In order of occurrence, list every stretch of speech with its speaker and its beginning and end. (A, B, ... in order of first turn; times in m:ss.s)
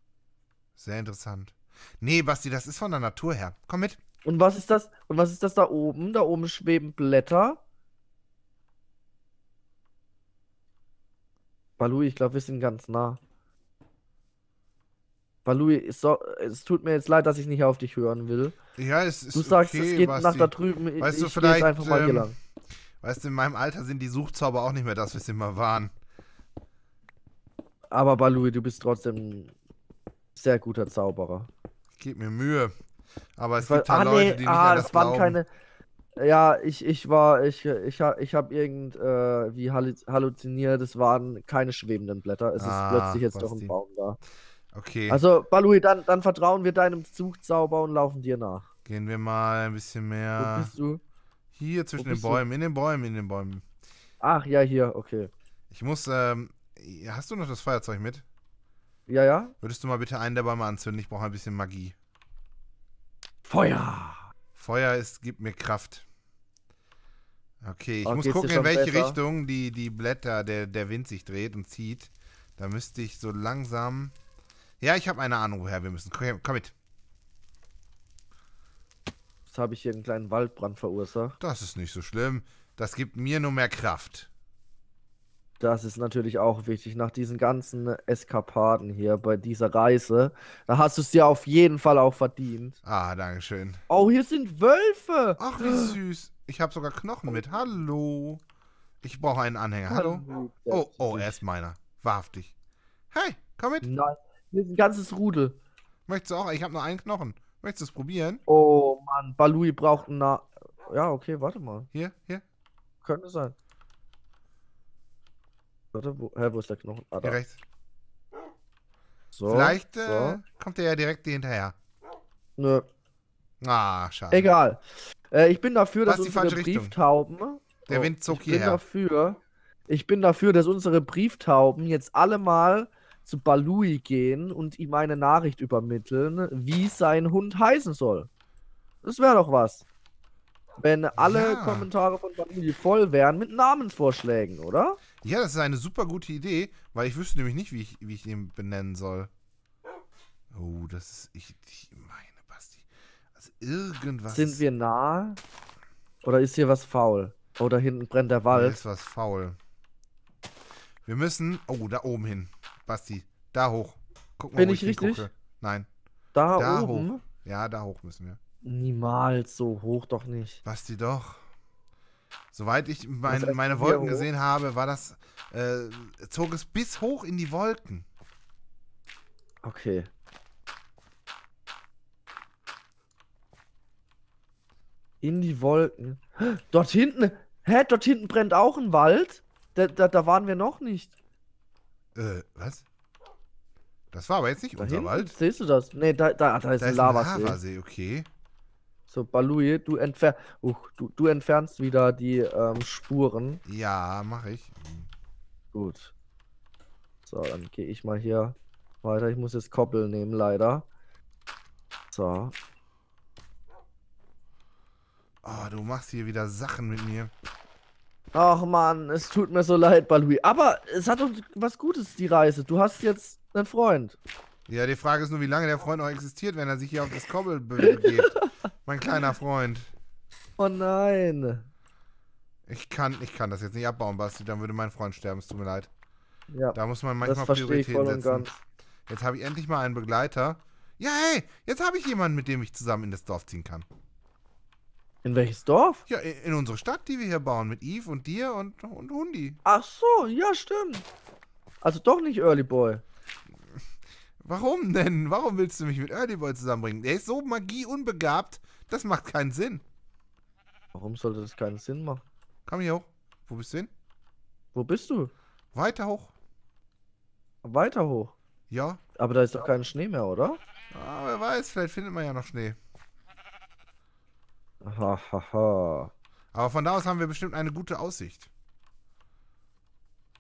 0:00.8-0:04.0 A
0:04.2-0:07.6 B
0:11.8-0:13.2 B
0:15.4-0:18.6 B
0:18.8-0:22.3 A
0:19.3-0:22.4 B
0:23.0-0:25.9 A
0:27.9-0:29.5 B
0:30.4-0:31.5 B
0:32.0-0:32.7 A
0:33.4-0:35.4 A
0:33.6-0:35.5 B
0:36.2-0:44.2 B
0:42.6-0:43.7 A
0:44.7-0:45.2 A
0:45.1-0:48.7 B
0:48.9-0:50.7 A
0:50.4-0:51.0 B
0:51.6-0:53.6 A
0:52.0-0:52.4 B
0:54.2-0:55.3 B
0:55.7-0:58.2 A
0:59.1-0:59.6 B
0:59.6-1:02.0 A
1:03.5-1:04.3 B
1:04.6-1:06.0 A
1:07.6-1:14.1 A
1:08.0-1:09.2 B
1:14.8-1:16.7 A
1:19.5-1:21.4 B
1:21.4-1:24.3 A
1:25.6-1:32.8 B
1:32.8-1:33.8 A
1:33.9-1:36.0 B
1:35.4-1:38.4 A
1:39.0-1:42.5 A
1:39.9-1:41.4 B
1:43.1-1:43.9 A
1:43.8-1:45.6 B
1:46.1-1:48.4 A
1:48.5-1:51.9 B
1:51.9-1:52.4 A
1:53.0-1:53.6 B
1:55.9-1:57.4 B
1:57.2-1:57.6 A
1:59.3-2:00.4 B
1:59.5-2:01.8 A
2:02.6-2:02.8 B
2:03.6-2:04.5 A
2:04.3-2:18.3 B
2:06.1-2:07.0 A
2:07.9-2:08.8 A
2:19.0-2:19.8 B
2:20.8-2:25.0 B
2:21.2-2:21.9 A
2:25.2-2:29.3 A
2:30.5-2:34.6 A
2:34.3-2:35.4 B
2:36.2-2:38.8 B
2:38.5-2:39.6 A
2:41.0-2:45.9 A
2:44.6-2:45.3 B
2:46.3-2:47.2 B
2:46.6-2:48.4 A
2:48.6-2:50.6 B
2:50.6-2:51.5 A
2:52.5-2:58.0 A
2:53.3-2:54.3 B
2:59.6-3:00.1 B
3:05.2-3:11.1 B
3:12.2-3:12.9 A
3:14.1-3:15.3 A
3:14.8-3:17.6 B
3:16.8-3:18.3 A
3:19.1-3:23.6 B
3:23.7-3:25.1 A
3:25.7-3:26.1 B
3:27.3-3:30.9 B
3:32.1-3:32.6 B
3:35.4-3:37.3 A
3:38.3-3:44.2 B
3:44.7-3:49.9 A
3:47.8-3:48.5 B
3:50.6-3:51.7 B
3:52.7-3:55.9 A
3:56.5-3:58.6 B
3:56.8-3:58.5 A
3:59.1-4:03.9 A
4:05.2-4:06.0 B
4:06.1-4:09.6 A
4:09.6-4:11.0 B
4:11.8-4:13.0 B
4:14.4-4:19.8 A
4:20.9-4:22.2 B
4:22.7-4:23.9 A
4:24.7-4:25.3 B
4:25.7-4:26.3 A
4:27.6-4:28.4 B
4:28.7-4:29.0 A
4:29.2-4:30.6 B
4:30.9-4:32.8 A
4:34.8-4:36.1 B
4:36.5-4:38.5 A